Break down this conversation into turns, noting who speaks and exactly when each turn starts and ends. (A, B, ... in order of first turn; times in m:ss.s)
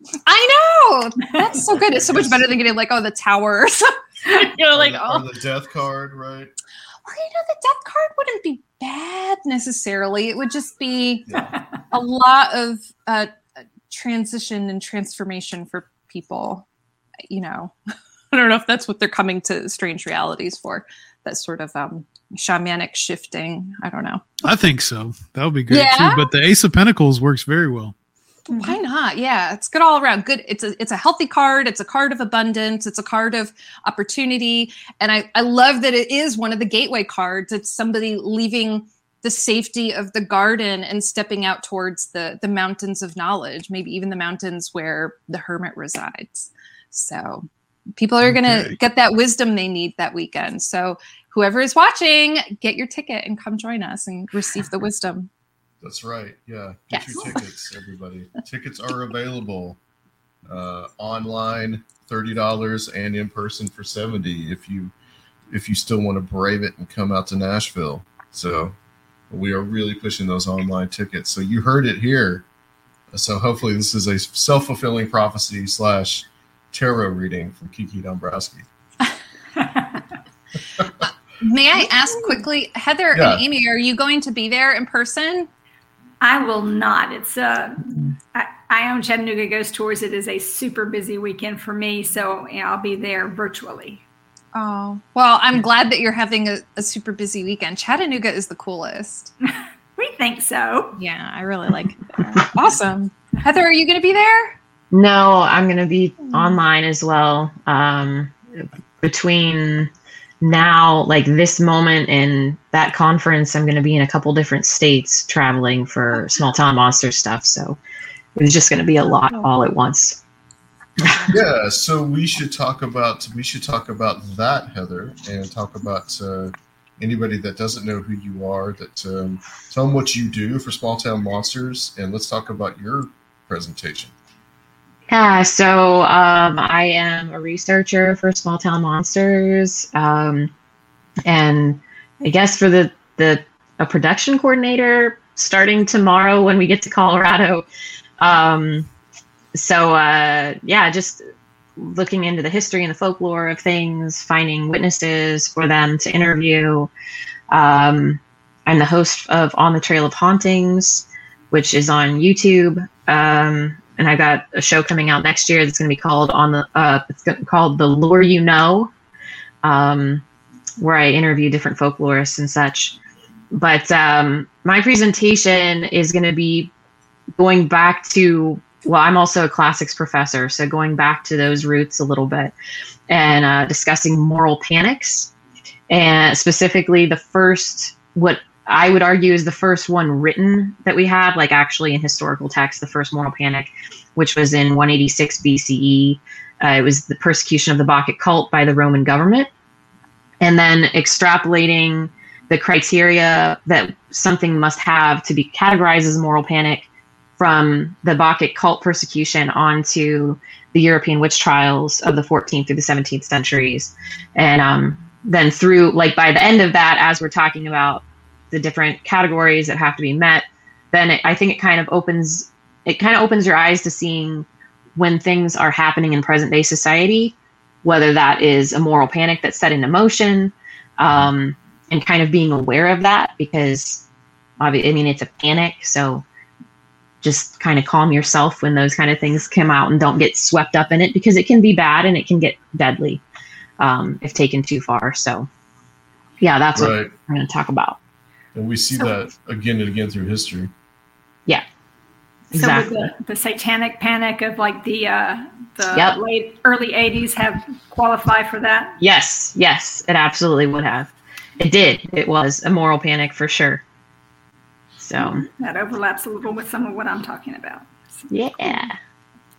0:00.3-0:05.3 A
0:02.1-0:02.4 B
0:04.7-0:06.5 B
0:07.1-0:11.3 A
0:11.3-0:11.6 B
0:11.9-0:13.3 A
0:13.9-0:16.7 A
0:17.3-0:17.8 A
0:18.3-0:24.2 A
0:24.4-0:27.9 C
0:25.7-0:26.3 A
0:28.5-0:55.3 A
0:48.4-0:48.7 B
0:55.8-0:59.8 B
0:56.9-0:57.4 A
1:00.5-1:04.9 B
1:05.5-1:08.8 B
1:09.3-1:12.4 B
1:13.1-1:18.7 B
1:19.6-1:20.0 D
1:21.4-1:25.5 A
1:23.1-1:23.4 B
1:26.2-1:34.0 D
1:34.5-1:39.3 A
1:39.5-1:41.0 D
1:41.0-1:44.6 A
1:44.9-1:49.9 E
1:50.4-1:57.8 E
1:58.4-2:00.2 E
2:01.0-2:01.4 E
2:01.3-2:14.1 B
2:15.1-2:20.5 E
2:21.3-2:27.7 E
2:28.2-2:28.9 E
2:29.5-2:31.2 E
2:31.8-2:36.9 E
2:37.5-2:48.9 E
2:49.6-2:50.2 E
2:50.8-2:53.0 E
2:53.5-2:56.7 E
2:57.4-3:02.5 E
3:03.1-3:05.3 E
3:05.9-3:19.5 E
3:20.4-3:26.9 E
3:27.4-3:54.0 E
3:54.6-3:56.2 E
3:57.2-4:03.2 E
4:03.8-4:05.5 E
4:06.4-4:08.0 E
4:06.8-4:07.1 B
4:08.5-4:10.7 B
4:12.5-4:12.9 E
4:12.6-4:19.0 D
4:15.9-4:16.2 E
4:19.0-4:23.8 E
4:25.0-4:25.5 E
4:25.2-4:28.8 D
4:28.3-4:29.0 E